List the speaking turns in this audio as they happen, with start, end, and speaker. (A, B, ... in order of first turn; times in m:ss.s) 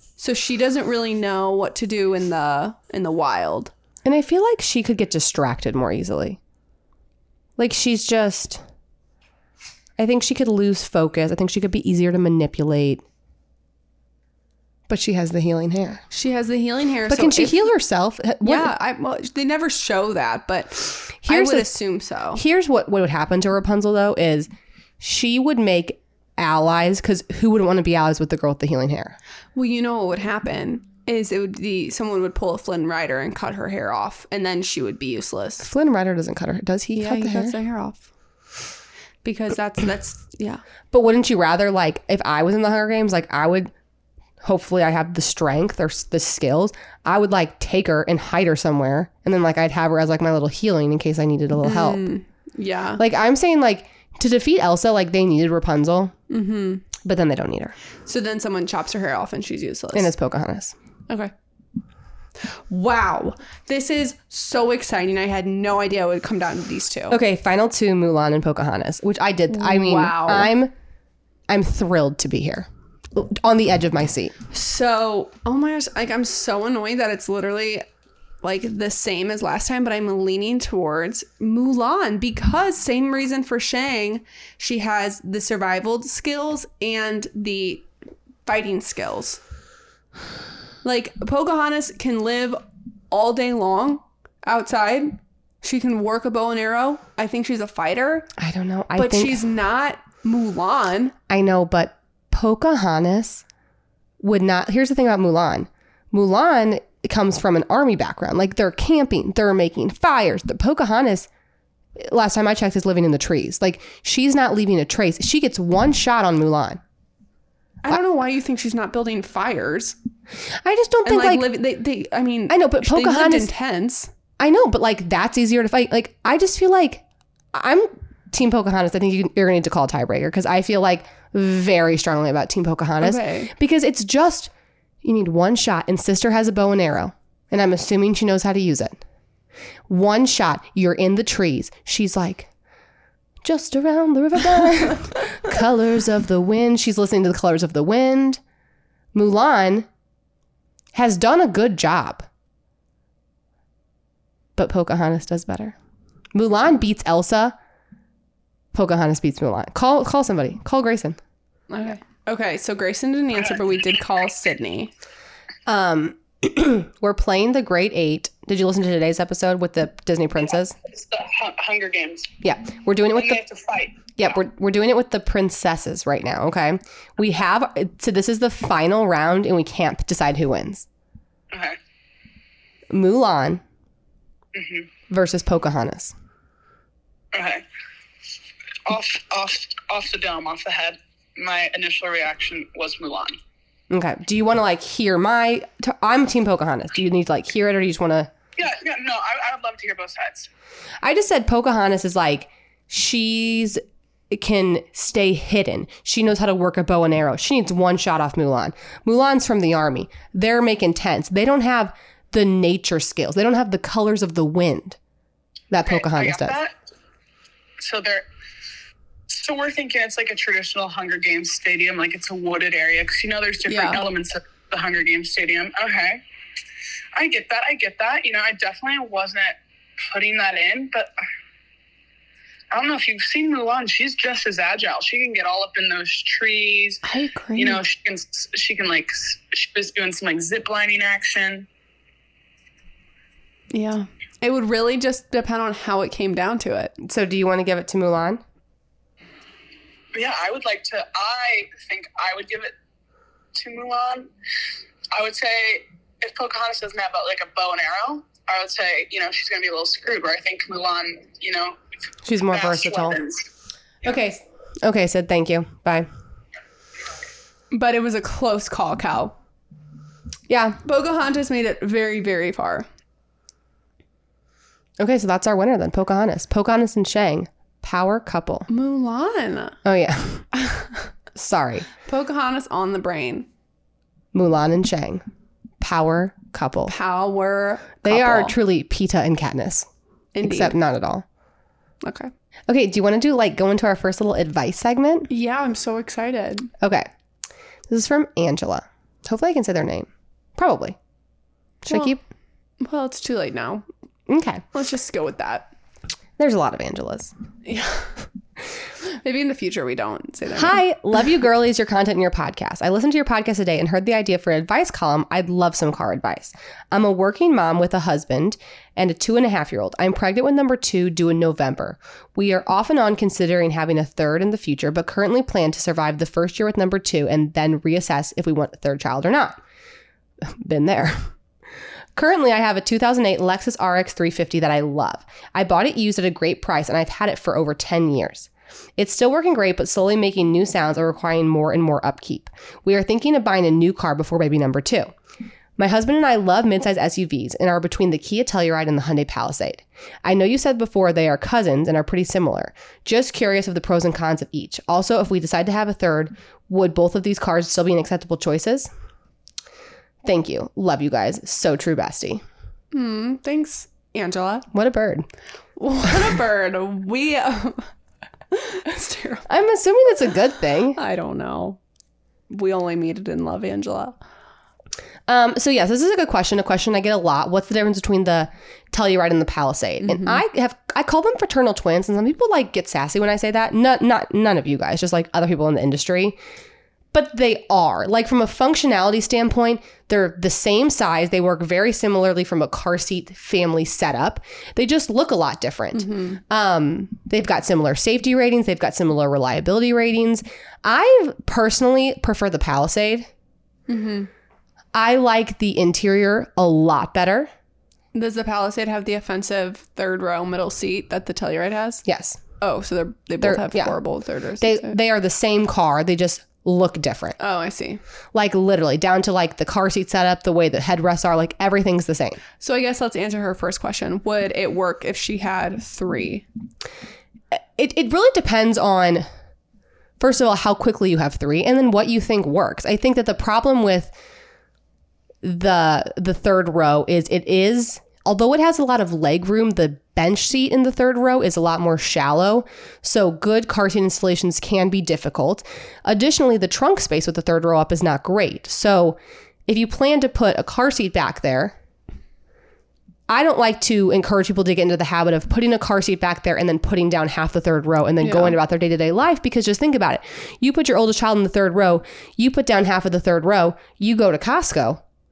0:00.2-0:03.7 A
0:04.0-0:06.4 B
0:07.6-0:08.6 B
0:10.0-0:13.0 B
0:14.9-0:16.0 B
0:16.1-0:17.7 A
0:17.1-0:18.7 B
0:18.4-0:22.4 A
0:21.2-0:21.7 B
0:22.3-0:29.2 B
0:29.6-0:35.7 A
0:35.6-0:37.6 B
0:37.0-0:38.1 A
0:39.2-0:40.6 A
0:40.9-0:43.7 B
0:44.4-0:52.1 B
0:51.6-0:53.0 A
0:53.0-0:56.1 B
0:56.3-0:56.9 A
0:57.0-0:57.8 B
0:58.1-1:00.1 A
0:59.9-1:00.8 B
1:02.7-1:07.2 A
1:07.1-1:10.7 B
1:09.5-1:10.5 A
1:11.5-1:14.4 B
1:14.5-1:17.9 A
1:18.4-1:27.9 A
1:28.5-1:29.4 A
1:30.8-1:32.6 A
1:33.1-1:38.3 A
1:38.4-1:39.4 B
1:39.0-1:41.2 A
1:41.3-1:43.4 B
1:44.2-1:51.3 B
1:52.0-1:56.8 B
1:57.8-2:00.0 A
2:00.6-2:01.5 B
2:01.1-2:04.1 A
2:02.5-2:03.5 B
2:04.4-2:14.5 B
2:13.0-2:13.5 A
2:15.0-2:19.0 B
2:19.9-2:22.5 B
2:23.4-2:28.4 B
2:29.1-2:29.9 B
2:30.9-2:32.3 B
2:34.6-2:35.8 B
2:36.3-2:37.6 B
2:38.7-2:41.2 B
2:41.7-2:44.9 A
2:45.7-2:50.8 B
2:50.9-2:52.3 C
2:52.4-2:53.4 B
2:53.2-2:54.1 C
2:54.2-3:00.9 B
3:01.5-3:01.8 C
3:02.9-3:03.6 B
3:04.5-3:04.9 C
3:05.1-3:06.1 B
3:07.3-3:07.6 C
3:08.9-3:13.4 C
3:13.9-3:18.3 B
3:18.6-3:20.5 C
3:21.0-3:35.0 B
3:35.7-3:36.6 B
3:35.9-3:36.7 C
3:37.8-3:38.2 C
3:39.3-3:46.2 C
3:43.7-3:44.0 A
3:47.2-3:49.6 C
3:50.1-3:51.1 C
3:52.7-3:57.0 C
3:57.0-3:57.8 A
3:57.6-4:01.7 C
4:03.7-4:06.9 A
4:07.0-4:08.4 B
4:10.1-4:12.7 C
4:13.6-4:14.3 C
4:15.1-4:21.8 C
4:22.2-4:23.2 B
4:22.5-4:23.4 C
4:24.0-4:26.1 B
4:27.7-4:29.4 A
4:30.5-4:30.8 B
4:30.8-4:32.9 A
4:35.0-4:38.7 B
4:38.7-4:39.8 A
4:39.8-4:40.5 B
4:40.6-4:41.0 A
4:41.4-4:41.9 B
4:42.0-4:43.5 A
4:44.3-4:45.2 B
4:45.8-4:46.9 B
4:46.9-4:48.6 A
4:48.0-4:49.9 B
4:50.3-4:50.8 A
4:50.4-4:51.2 B
4:52.0-4:52.3 A
4:52.7-4:55.3 B
4:55.3-4:56.7 A
4:56.8-4:57.1 B
4:57.9-5:01.0 B
5:01.8-5:02.2 A
5:01.8-5:02.2 B
5:02.8-5:03.8 A
5:04.3-5:04.6 B
5:04.7-5:05.7 A
5:06.4-5:07.3 B
5:07.6-5:08.1 A
5:09.0-5:10.8 A
5:10.5-5:29.6 B
5:30.4-5:31.3 B
5:32.2-5:45.1 B
5:45.8-5:58.9 B
6:00.2-6:02.4 B
6:02.9-6:04.7 A
6:04.7-6:05.3 B
6:05.8-6:07.9 A
6:08.5-6:09.5 A
6:09.5-6:11.0 B
6:11.0-6:11.8 A
6:12.5-6:14.2 A
6:15.3-6:26.4 B
6:20.0-6:20.4 A
6:27.1-6:43.3 B
6:35.9-6:36.4 A
6:43.9-6:44.3 A
6:44.9-6:47.5 B
6:48.1-6:52.0 A
6:52.0-6:52.4 B
6:52.6-6:55.0 A
6:53.4-6:54.0 B
6:54.6-6:57.4 B
6:57.4-6:58.0 A
6:58.3-7:02.4 B
7:02.6-7:06.5 A
7:07.5-7:09.3 B
7:10.2-7:14.1 B
7:15.4-7:31.8 B
7:33.3-7:45.0 B
7:38.2-7:38.6 A